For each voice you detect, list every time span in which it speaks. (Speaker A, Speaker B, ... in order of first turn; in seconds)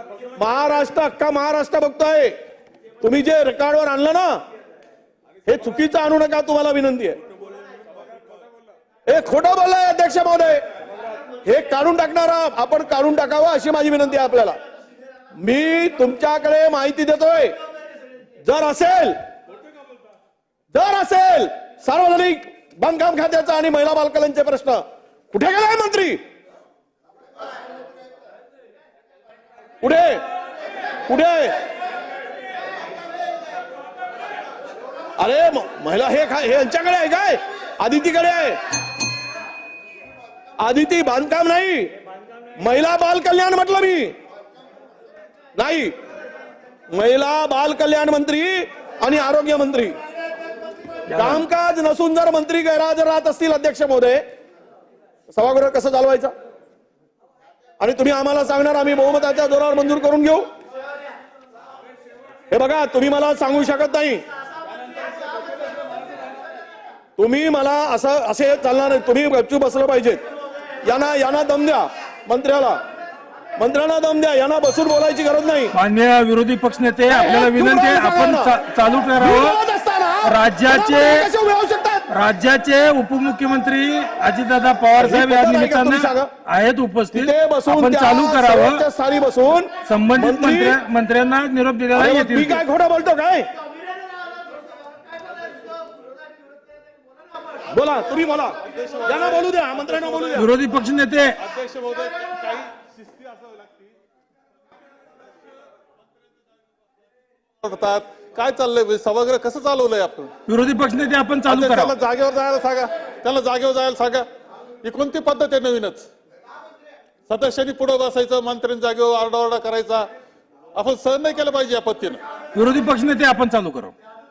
Speaker A: 0.4-2.3, 3.0-4.4, 5.5-7.2, 9.1-10.6, 11.4-14.6, 15.4-17.6, 18.4-19.2, 20.7-26.2, 29.8-30.2, 31.1-31.6, 35.2-38.6, 40.6-41.9, 42.6-44.1, 45.6-45.9, 46.9-50.0, 51.1-54.2, 55.3-56.3, 57.8-60.5, 62.5-64.2, 67.2-70.2, 70.8-72.8, 73.6-75.7, 77.1-78.5, 79.2-82.0, 85.0-86.3, 87.1-90.8, 91.9-93.5, 97.7-100.5
Speaker B: 51.1-51.5, 75.7-79.6, 80.2-81.3, 82.1-88.8, 89.8-92.6, 100.3-101.4, 110.5-112.0, 122.5-123.9
Speaker C: 98.7-100.4, 101.4-103.9, 107.6-110.3, 111.5-114.3, 114.8-116.1, 117.3-120.1, 120.8-122.2